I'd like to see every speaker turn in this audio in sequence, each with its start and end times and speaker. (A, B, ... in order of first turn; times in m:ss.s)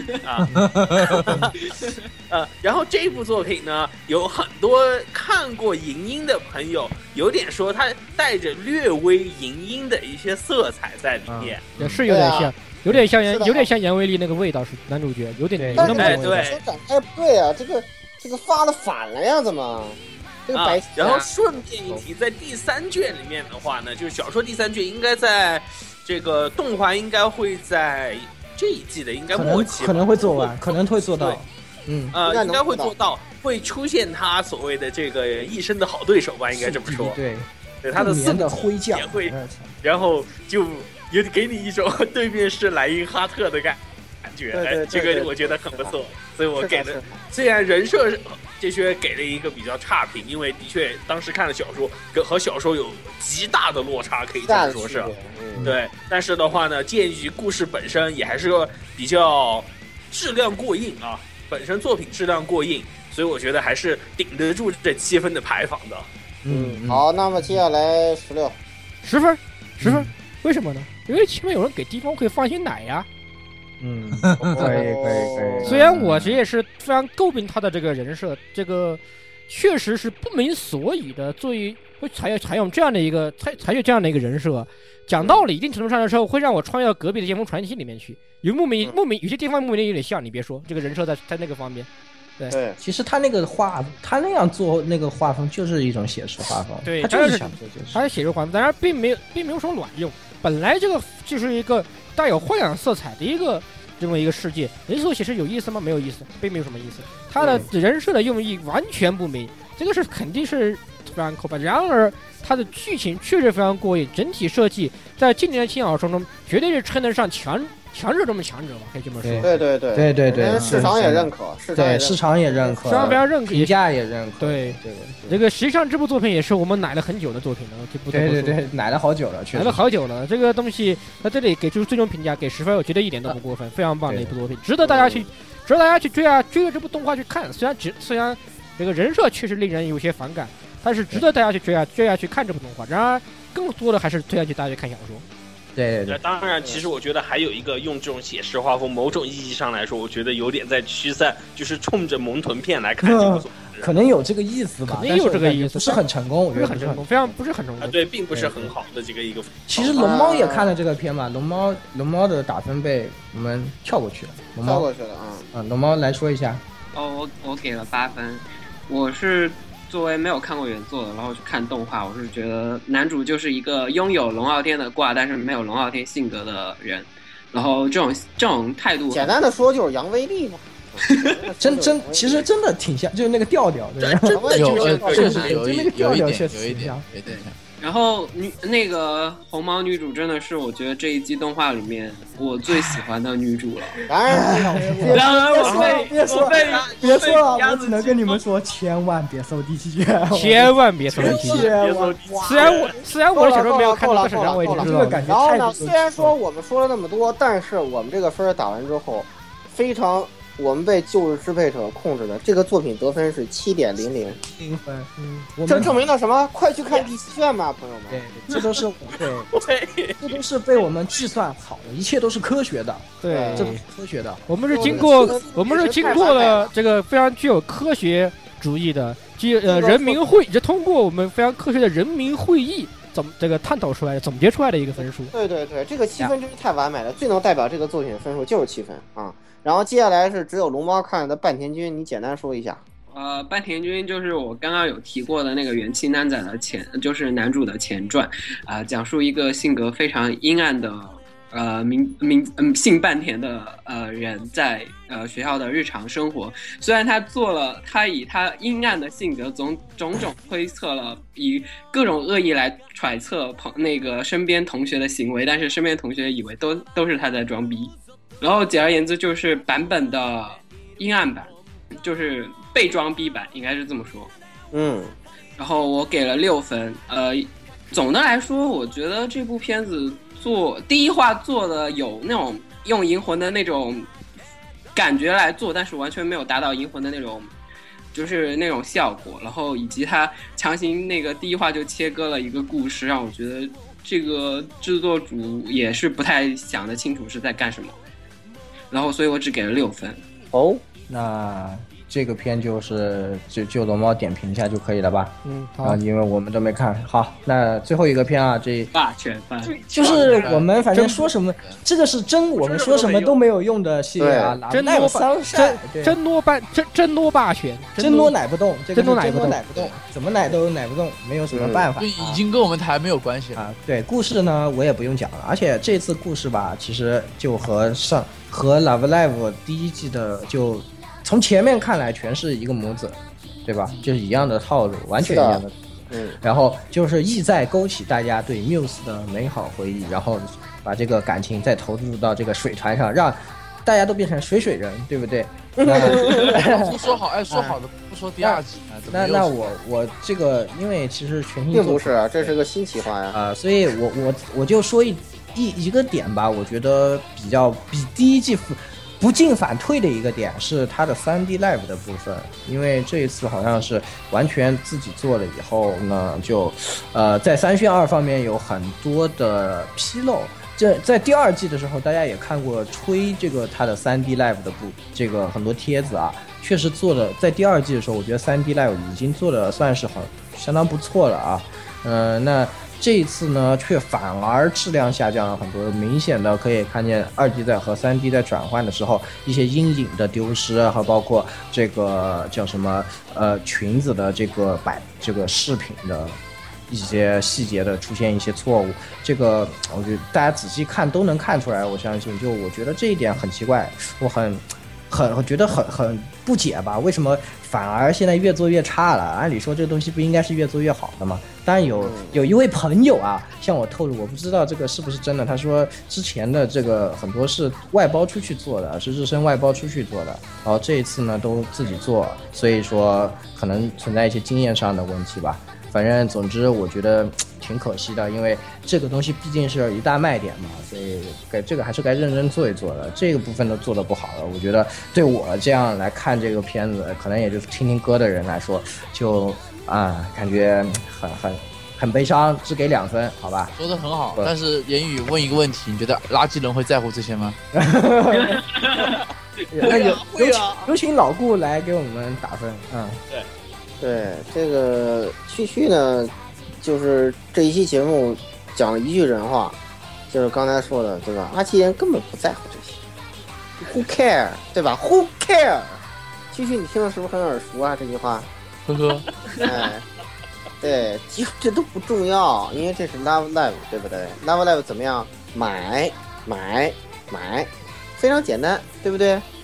0:00.2-0:11.6 A
0:00.4-0:01.5 B
0:00.5-0:01.3 C
0:11.3-0:12.0 B
0:11.8-0:16.5 D
0:12.1-0:12.5 E
0:13.2-0:13.7 E
0:15.6-0:16.3 B
0:15.8-0:21.3 E
0:15.9-0:16.6 A
0:20.5-0:31.4 A
0:29.3-0:32.2 B
0:32.1-0:37.2 A
0:32.2-0:32.9 E
0:36.5-0:39.8 B
0:37.8-1:06.1 A
0:44.5-0:45.9 E
0:46.5-0:47.2 E
0:54.4-0:55.8 E
1:06.4-1:07.0 B
1:06.5-1:08.6 E
1:09.0-1:13.0 D
1:09.8-1:10.1 B
1:13.8-1:15.9 B
1:14.2-1:14.7 C
1:14.4-1:15.8 E
1:15.6-1:31.9 D
1:16.0-1:16.4 C
1:32.5-1:32.8 E
1:32.8-1:38.0 B
1:36.8-1:59.6 D
1:47.4-1:47.6 E
1:59.2-2:05.4 B
1:59.4-2:02.2 E
2:00.5-2:00.8 C
2:02.8-2:03.7 D
2:04.4-2:08.6 D
2:08.1-2:09.8 B
2:09.5-2:25.2 D
2:14.0-2:14.3 B
2:14.8-2:15.3 E
2:25.8-2:26.2 B
2:26.1-2:33.9 A
2:33.0-2:37.0 B
2:34.8-2:38.0 D
2:37.8-2:40.0 A
2:38.3-2:38.7 B
2:39.7-2:44.9 B
2:39.9-2:40.7 E
2:44.6-2:45.5 E
2:45.5-2:46.6 B
2:46.9-2:59.4 F
2:59.1-3:02.5 E
3:01.6-3:04.4 B
3:04.0-3:05.5 A
3:04.3-3:05.6 E
3:04.6-3:07.6 C
3:05.1-3:07.0 B
3:07.8-3:14.0 F
3:12.7-3:13.0 B
3:14.0-3:16.0 E
3:14.2-3:22.8 B
3:15.2-3:18.4 A
3:15.2-3:17.3 F
3:20.3-3:21.7 D
3:21.1-3:23.0 A
3:22.4-3:25.3 D
3:23.3-3:34.4 E
3:24.6-3:26.3 B
3:34.4-3:36.1 B
3:35.2-3:35.5 D
3:35.7-3:38.2 E
3:38.1-3:39.5 B
3:39.5-3:40.4 A
3:40.2-3:45.5 B
3:43.2-3:43.8 D
3:43.3-3:43.7 E
3:44.5-3:55.3 D
3:44.7-3:46.7 E
3:49.6-3:50.4 E
3:55.0-4:02.8 E
4:03.1-4:34.3 F
4:34.7-4:35.1 E
4:35.6-4:44.1 F
4:44.9-4:47.5 F
4:48.1-4:58.0 F
4:58.9-5:00.2 F
5:00.5-5:00.8 E
5:01.1-5:08.9 B
5:05.4-5:06.0 D
5:08.9-5:09.8 F
5:09.6-5:10.6 A
5:09.9-5:16.2 B
5:10.3-5:10.7 C
5:12.6-5:13.4 A
5:14.2-5:14.6 E
5:14.7-5:18.3 D
5:18.0-5:22.4 B
5:18.9-5:19.6 D
5:21.5-5:21.8 E
5:22.0-5:23.6 C
5:23.6-5:35.7 B
5:35.2-5:36.4 E
5:36.4-5:47.8 B
5:45.8-5:46.6 E
5:45.9-5:49.6 C
5:48.4-5:52.6 B
5:51.7-5:53.4 E
5:53.3-6:36.4 B
6:36.9-7:23.7 B
6:52.0-6:52.4 E
7:23.8-7:27.6 C
7:27.7-7:28.6 B
7:28.4-7:30.9 A
7:29.7-7:33.2 B
7:34.0-7:39.8 E
7:40.3-7:43.0 E
7:43.8-7:48.5 E
7:48.8-7:49.3 C
7:49.6-7:50.0 E
7:50.8-7:59.4 E